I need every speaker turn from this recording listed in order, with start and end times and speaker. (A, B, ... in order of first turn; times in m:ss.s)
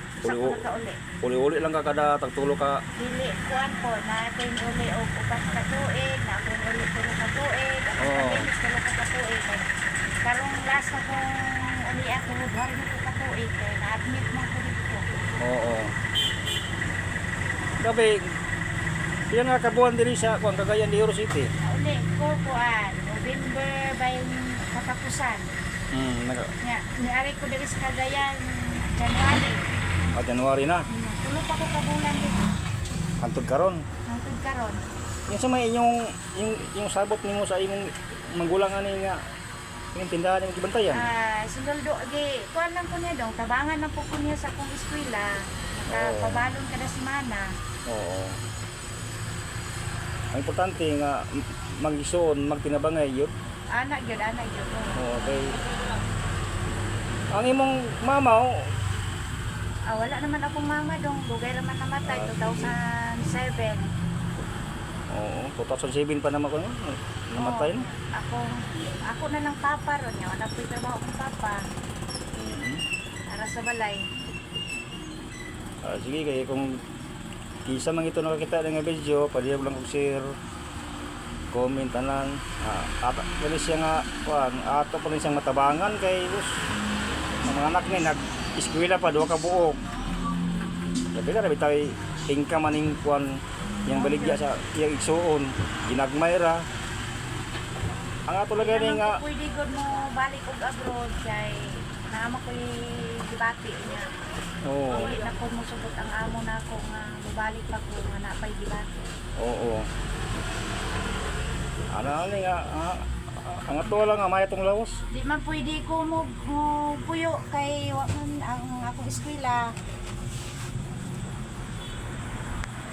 0:00.2-0:01.0 A
0:00.2-0:00.6 B
0:01.2-0:02.8 B
0:03.0-0:09.7 A
0:08.0-0:08.5 B
0:10.2-0:15.0 A
0:15.4-0:15.9 B
0:17.8-0:18.3 B
0:19.3-0:21.5 B
0:21.6-0:25.5 A
0:25.9-0:26.5 B
0:26.6-0:29.6 A
0:30.1-0:30.8 B
0:30.9-0:32.6 A
0:33.2-0:33.9 B
0:34.1-0:34.8 A
0:35.3-0:39.2 B
0:39.9-0:41.1 B
0:40.9-0:47.5 A
0:45.9-0:46.4 B
0:47.9-0:48.4 B
0:50.3-0:53.3 B
0:53.7-0:55.0 A
0:55.0-0:55.6 B
0:57.3-0:58.5 B
0:59.9-1:03.9 A
1:02.0-1:02.8 B
1:05.1-1:07.9 B
1:07.4-1:08.5 A
1:09.1-1:11.6 A
1:12.3-1:12.8 B
1:13.3-1:14.1 A
1:15.8-1:16.8 B
1:17.7-1:20.4 B
1:21.5-1:26.6 B
1:27.4-1:29.8 B
1:31.1-1:36.6 B
1:33.9-1:34.4 A
1:38.3-1:39.2 B
1:38.6-1:44.1 A
1:44.6-1:45.1 B
1:44.9-1:48.9 A
1:49.4-1:49.9 B
1:51.9-1:55.0 B
1:55.1-1:59.8 A